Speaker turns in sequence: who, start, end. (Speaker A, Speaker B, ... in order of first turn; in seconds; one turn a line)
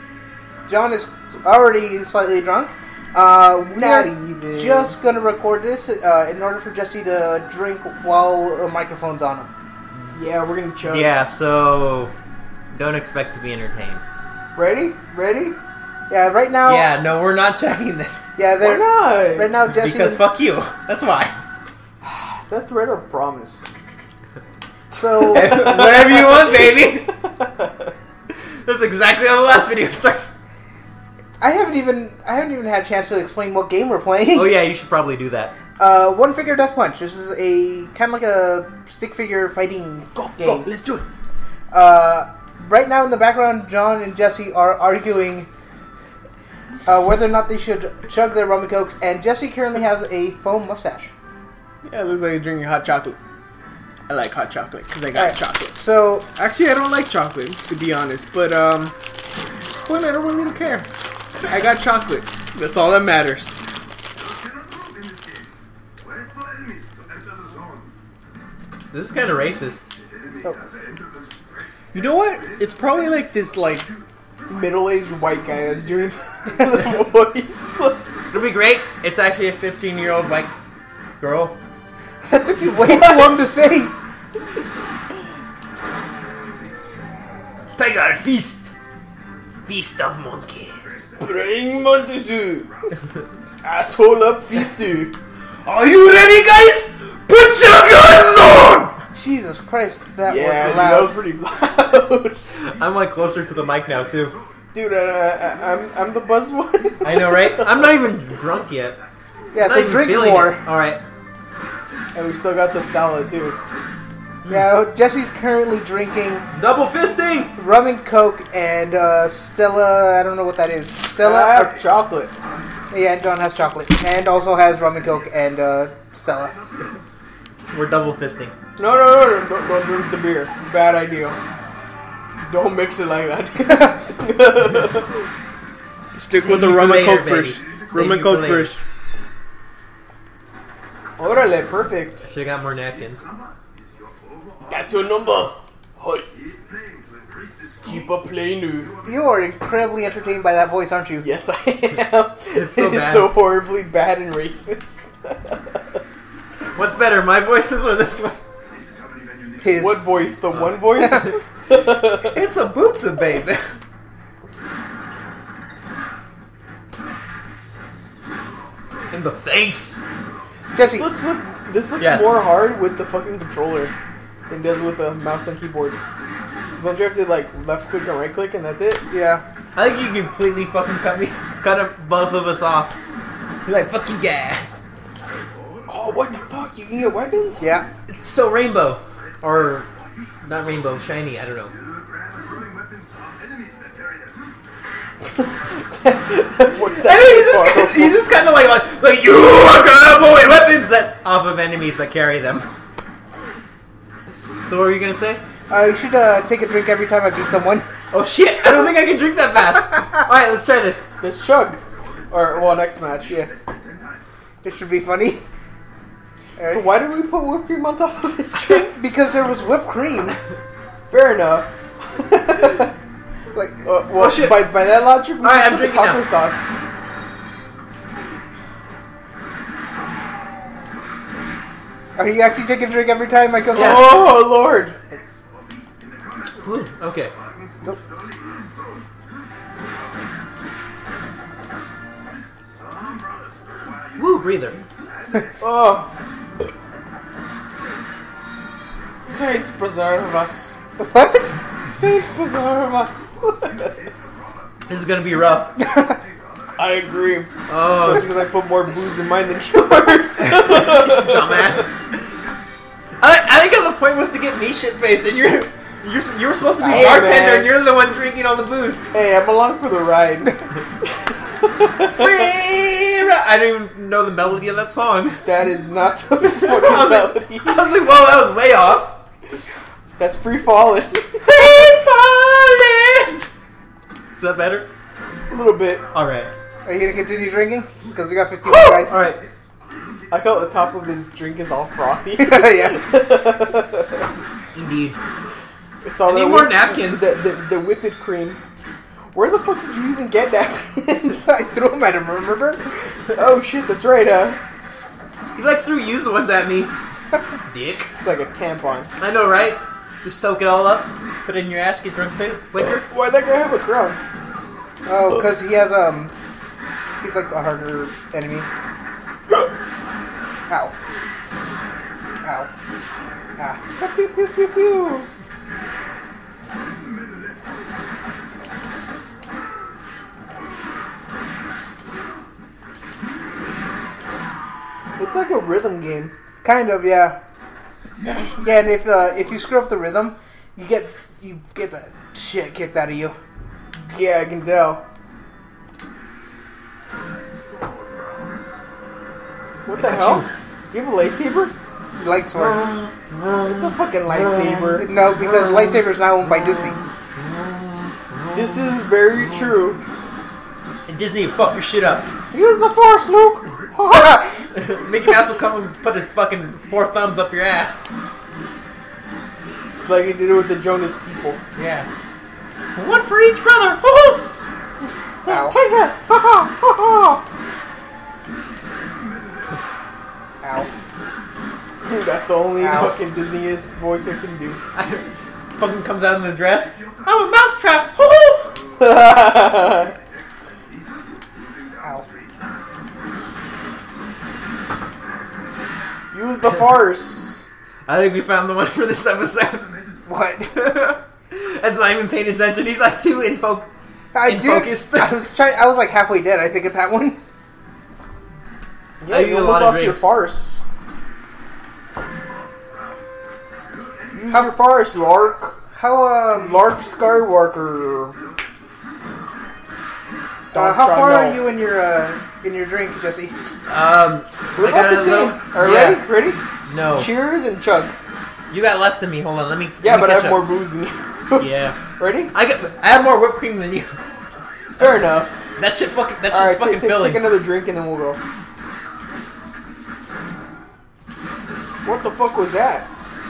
Speaker A: 0.7-9.5
Speaker B: 3.7-4.9
Speaker B: 10.1-11.1
Speaker C: 10.8-12.1
Speaker C: 12.7-14.0
Speaker B: 14.6-15.6
Speaker A: 16.1-16.9
Speaker C: 16.6-18.3
Speaker A: 18.4-20.2
Speaker B: 18.6-19.5
Speaker C: 19.6-21.4
Speaker B: 22.0-23.8
Speaker A: 24.9-25.6
Speaker B: 25.0-27.9
Speaker C: 25.3-27.1
Speaker C: 28.6-30.3
Speaker A: 31.4-34.5
Speaker C: 34.3-35.5
Speaker A: 35.8-40.7
Speaker B: 40.1-41.0
Speaker A: 41.7-45.5
Speaker A: 46.9-51.1
Speaker B: 51.8-53.2
Speaker B: 54.1-55.8
Speaker A: 55.1-56.3
Speaker B: 56.3-58.9
Speaker B: 59.7-60.9
Speaker B: 61.4-63.6
Speaker C: 68.9-69.9
Speaker B: 71.9-73.9
Speaker B: 74.5-78.0
Speaker C: 78.3-80.5
Speaker C: 81.2-81.6
Speaker A: 82.2-83.9
Speaker B: 82.6-83.5
Speaker C: 87.8-88.7
Speaker C: 89.6-90.8
Speaker B: 91.2-92.7
Speaker B: 93.6-95.1
Speaker C: 95.6-99.0
Speaker A: 99.1-101.1
Speaker B: 100.2-102.5
Speaker C: 102.6-104.4
Speaker B: 104.7-107.9
Speaker C: 107.0-109.0
Speaker A: 109.5-110.6
Speaker C: 109.5-111.0
Speaker B: 112.1-113.6
Speaker C: 114.5-114.7
Speaker A: 114.5-116.5
Speaker C: 116.5-117.5
Speaker A: 117.5-121.8
Speaker B: 121.2-122.3
Speaker A: 122.9-126.5
Speaker C: 127.7-128.5
Speaker B: 128.8-131.4
Speaker B: 132.4-135.2
Speaker A: 133.7-134.0
Speaker B: 136.1-138.8
Speaker C: 136.3-138.7
Speaker B: 141.2-142.2
Speaker C: 142.2-143.2
Speaker B: 144.6-146.2
Speaker B: 147.8-149.0
Speaker A: 149.0-151.3
Speaker B: 151.2-156.0
Speaker C: 152.5-153.3
Speaker C: 156.7-158.4
Speaker A: 159.6-160.0
Speaker B: 159.7-162.4
Speaker C: 160.5-161.2
Speaker A: 161.0-161.2
Speaker C: 162.2-163.7
Speaker C: 169.1-170.0
Speaker A: 170.7-171.1
Speaker B: 170.8-173.9
Speaker C: 172.0-172.4
Speaker B: 174.5-176.0
Speaker B: 176.7-179.0
Speaker A: 179.1-179.4
Speaker C: 179.7-182.9
Speaker C: 183.7-184.8
Speaker B: 185.9-187.7
Speaker A: 187.6-187.8
Speaker C: 188.1-189.9
Speaker C: 190.4-191.7
Speaker B: 195.3-198.2
Speaker C: 196.8-202.7
Speaker C: 204.6-205.4
Speaker A: 205.7-207.9
Speaker C: 208.1-211.1
Speaker B: 211.2-213.3
Speaker A: 214.6-215.4
Speaker A: 216.6-216.8
Speaker B: 216.6-218.9
Speaker A: 218.7-220.4
Speaker B: 221.1-222.9
Speaker A: 223.5-223.9
Speaker B: 223.8-226.7
Speaker C: 224.2-224.8
Speaker C: 225.4-226.2
Speaker A: 232.2-234.2
Speaker B: 233.7-234.9
Speaker C: 233.7-234.2
Speaker C: 236.6-237.3
Speaker C: 244.2-244.8
Speaker B: 245.6-246.1
Speaker B: 249.3-250.7
Speaker A: 251.0-251.6
Speaker B: 251.9-254.1
Speaker C: 254.9-255.7
Speaker A: 255.8-256.2
Speaker B: 256.8-257.5
Speaker C: 257.7-258.4
Speaker B: 258.0-261.8
Speaker A: 258.1-258.5
Speaker C: 260.4-262.0
Speaker C: 263.2-269.1
Speaker B: 266.8-267.7
Speaker A: 266.9-267.1
Speaker B: 269.1-272.5
Speaker C: 272.1-275.4
Speaker B: 275.4-277.9
Speaker C: 276.4-279.2
Speaker B: 280.2-281.7
Speaker C: 281.4-283.4
Speaker C: 284.4-284.9
Speaker B: 285.5-286.0
Speaker C: 286.1-286.5
Speaker A: 286.8-289.2
Speaker C: 288.6-289.4
Speaker B: 290.3-294.3
Speaker A: 292.4-293.1
Speaker C: 294.7-295.2
Speaker B: 296.0-298.6
Speaker C: 296.2-297.3
Speaker B: 299.3-301.5
Speaker A: 301.3-302.9
Speaker B: 303.3-304.6
Speaker C: 305.6-306.9
Speaker C: 307.7-308.1
Speaker B: 308.2-309.1
Speaker C: 309.2-313.1
Speaker B: 312.9-314.2
Speaker A: 315.1-316.3
Speaker A: 317.2-318.7
Speaker A: 320.7-320.9
Speaker A: 322.4-322.7
Speaker A: 323.6-323.9
Speaker B: 324.0-325.2
Speaker B: 335.2-336.3
Speaker A: 336.6-337.4
Speaker A: 338.3-343.4
Speaker B: 344.0-345.0
Speaker B: 349.9-351.7
Speaker C: 349.9-350.5
Speaker A: 352.2-352.8
Speaker C: 352.5-359.7
Speaker B: 353.6-355.1
Speaker A: 355.0-357.0
Speaker B: 358.5-360.0
Speaker C: 361.1-362.3
Speaker B: 362.5-364.4
Speaker A: 364.0-364.6
Speaker C: 364.7-368.1
Speaker B: 369.9-371.6
Speaker C: 371.8-372.1
Speaker C: 372.9-374.5
Speaker A: 375.4-375.7
Speaker B: 375.4-377.4
Speaker A: 380.6-380.9
Speaker B: 382.0-384.8
Speaker A: 382.8-383.1
Speaker C: 384.9-388.7
Speaker B: 389.0-390.1
Speaker B: 396.3-397.6
Speaker C: 398.1-400.0
Speaker A: 400.2-400.8
Speaker C: 400.7-403.9
Speaker A: 404.3-407.4
Speaker C: 404.4-405.4
Speaker B: 409.2-410.8
Speaker C: 409.3-410.3
Speaker B: 414.3-415.8
Speaker A: 415.9-416.8
Speaker B: 416.5-418.4
Speaker B: 420.7-421.6
Speaker A: 420.7-423.5
Speaker C: 423.9-426.3
Speaker B: 424.8-426.6
Speaker C: 426.9-427.3
Speaker B: 427.1-428.1
Speaker C: 428.7-430.7
Speaker B: 430.0-432.5
Speaker C: 431.6-432.0
Speaker C: 432.5-434.1
Speaker B: 435.0-435.7
Speaker C: 435.0-437.6
Speaker B: 436.5-438.4
Speaker B: 442.0-443.1